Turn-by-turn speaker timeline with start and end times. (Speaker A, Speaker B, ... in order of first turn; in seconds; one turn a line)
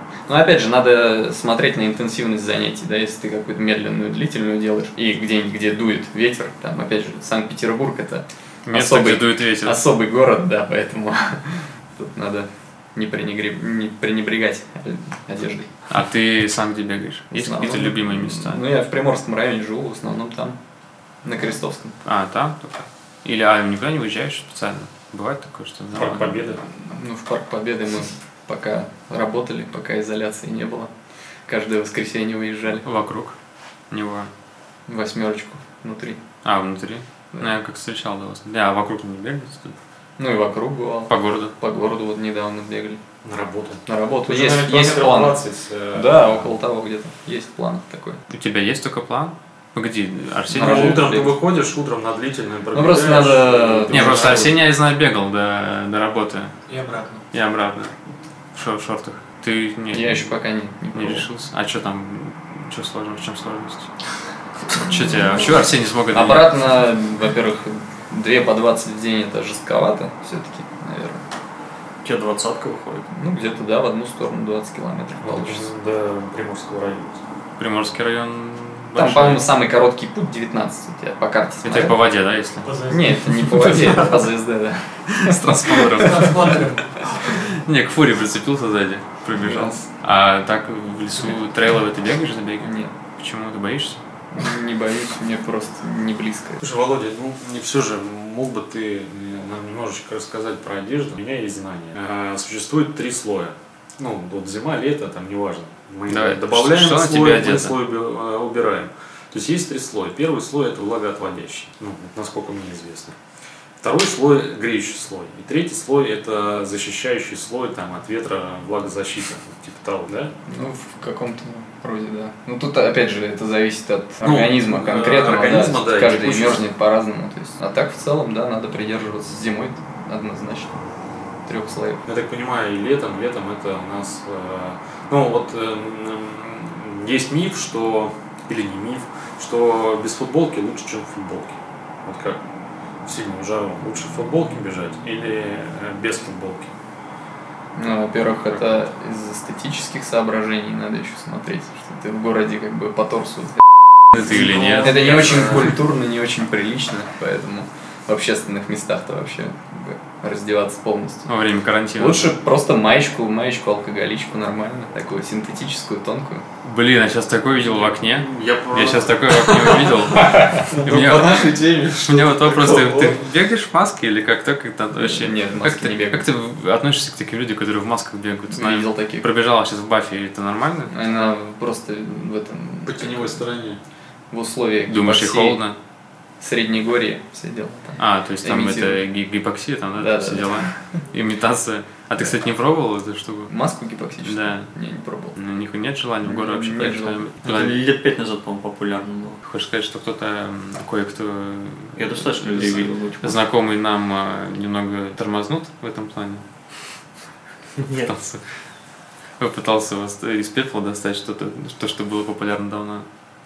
Speaker A: 0.3-15.7
Speaker B: 8.7-9.8
Speaker B: 15.9-18.6
Speaker A: 17.3-20.6
Speaker A: 21.2-22.0
Speaker B: 22.0-26.4
Speaker C: 25.9-26.6
Speaker A: 26.7-30.9
Speaker A: 31.5-32.8
Speaker B: 32.8-33.4
Speaker B: 33.9-34.3
Speaker A: 34.9-36.2
Speaker B: 36.4-39.8
Speaker A: 40.2-43.0
Speaker B: 41.1-41.5
Speaker C: 43.2-46.5
Speaker A: 43.9-48.2
Speaker B: 48.3-51.0
Speaker A: 50.5-51.4
Speaker C: 50.5-54.5
Speaker A: 52.7-54.6
Speaker B: 53.9-56.5
Speaker D: 56.7-57.2
Speaker B: 57.3-57.9
Speaker B: 58.5-60.3
Speaker A: 59.9-61.3
Speaker B: 60.9-63.9
Speaker B: 64.8-66.5
Speaker A: 66.1-71.2
Speaker E: 72.0-73.1
Speaker A: 73.1-75.7
Speaker C: 75.2-77.2
Speaker B: 77.6-79.4
Speaker A: 78.9-82.0
Speaker B: 81.6-82.7
Speaker D: 82.6-83.8
Speaker A: 82.9-86.2
Speaker B: 85.1-86.6
Speaker D: 86.0-87.3
Speaker B: 87.2-94.0
Speaker A: 89.3-89.8
Speaker A: 92.6-92.9
Speaker A: 94.3-96.6
Speaker C: 96.6-113.1
Speaker B: 106.1-107.8
Speaker C: 113.8-120.3
Speaker A: 120.5-130.7
Speaker C: 124.2-126.7
Speaker A: 131.4-132.0
Speaker C: 132.1-142.4
Speaker C: 143.0-146.7
Speaker A: 147.8-153.5
Speaker B: 154.1-155.7
Speaker C: 154.1-155.8
Speaker A: 154.7-161.3
Speaker B: 161.3-162.3
Speaker A: 161.9-166.4
Speaker B: 166.6-180.9
Speaker C: 167.6-169.8
Speaker C: 170.9-171.3
Speaker E: 170.9-171.4
Speaker A: 174.9-176.2
Speaker A: 178.5-179.2
Speaker A: 180.9-183.4
Speaker C: 182.8-183.8
Speaker A: 184.3-185.6
Speaker B: 184.9-185.8
Speaker A: 186.4-189.0
Speaker B: 188.0-193.5
Speaker A: 190.0-190.7
Speaker A: 193.5-195.4
Speaker B: 194.2-194.7
Speaker B: 195.4-197.8
Speaker A: 196.2-197.2
Speaker E: 197.4-199.4
Speaker B: 199.4-206.4
Speaker E: 202.0-203.4
Speaker E: 207.8-208.1
Speaker B: 207.9-208.4
Speaker B: 209.4-213.1